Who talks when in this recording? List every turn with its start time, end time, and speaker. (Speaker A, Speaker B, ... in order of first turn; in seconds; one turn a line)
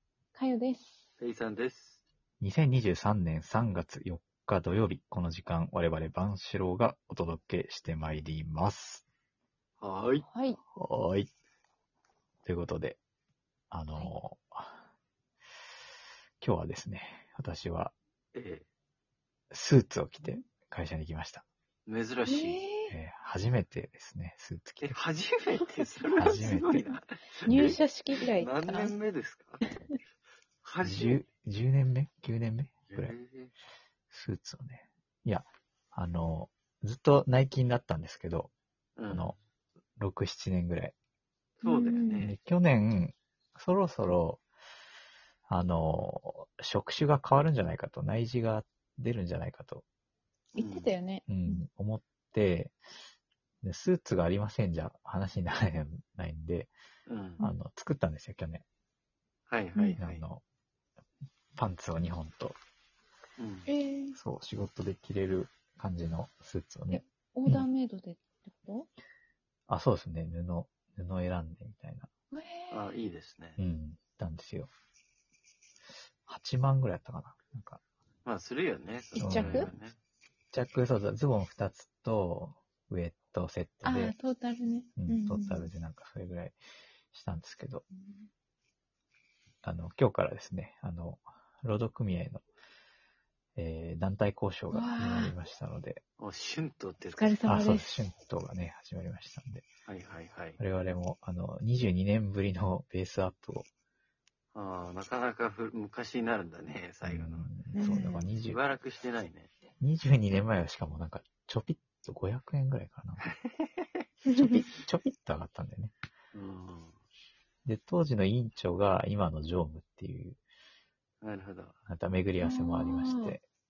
Speaker A: 0.3-1.0
Speaker B: 1.2-2.0
Speaker C: 2.4-9.0
Speaker B: 9.8-10.2
Speaker A: 10.2-10.6
Speaker C: 10.8-11.3
Speaker C: 12.4-13.0
Speaker C: 13.7-14.8
Speaker C: 16.4-17.9
Speaker B: 18.3-18.6
Speaker C: 19.5-21.4
Speaker B: 21.9-22.6
Speaker A: 22.3-22.9
Speaker C: 22.9-25.0
Speaker B: 24.8-29.7
Speaker C: 26.2-27.8
Speaker A: 27.5-28.9
Speaker B: 30.6-31.2
Speaker C: 30.8-33.1
Speaker B: 32.9-33.5
Speaker C: 34.1-38.5
Speaker B: 39.0-39.4
Speaker C: 39.1-39.4
Speaker C: 40.0-41.0
Speaker A: 41.6-42.2
Speaker B: 41.6-42.4
Speaker C: 42.2-44.4
Speaker C: 45.5-49.8
Speaker B: 50.5-50.9
Speaker A: 50.5-51.6
Speaker C: 51.3-52.8
Speaker C: 53.6-56.7
Speaker B: 57.1-57.4
Speaker C: 57.4-58.6
Speaker B: 59.5-60.2
Speaker C: 60.0-60.4
Speaker C: 61.5-62.6
Speaker B: 63.4-63.7
Speaker A: 63.7-64.2
Speaker C: 64.1-67.7
Speaker A: 66.9-68.9
Speaker C: 69.7-72.1
Speaker A: 72.3-72.8
Speaker B: 72.7-73.6
Speaker C: 73.6-74.7
Speaker C: 76.3-77.8
Speaker B: 78.3-80.0
Speaker A: 79.2-79.7
Speaker C: 79.2-79.7
Speaker C: 80.5-84.2
Speaker A: 83.8-85.7
Speaker C: 85.0-86.6
Speaker C: 87.1-87.8
Speaker A: 88.0-88.3
Speaker C: 89.6-92.4
Speaker C: 93.6-96.0
Speaker A: 94.7-95.3
Speaker B: 96.2-97.4
Speaker A: 97.0-98.0
Speaker C: 97.4-99.7
Speaker B: 99.9-100.6
Speaker C: 100.6-103.7
Speaker B: 104.5-107.5
Speaker C: 107.0-108.6
Speaker A: 107.7-108.3
Speaker B: 108.4-109.5
Speaker C: 109.8-113.3
Speaker B: 113.2-114.0
Speaker A: 114.3-114.6
Speaker C: 114.3-116.0
Speaker B: 116.3-117.0
Speaker C: 117.7-120.4
Speaker B: 121.2-121.8
Speaker C: 121.9-123.4
Speaker A: 122.4-123.4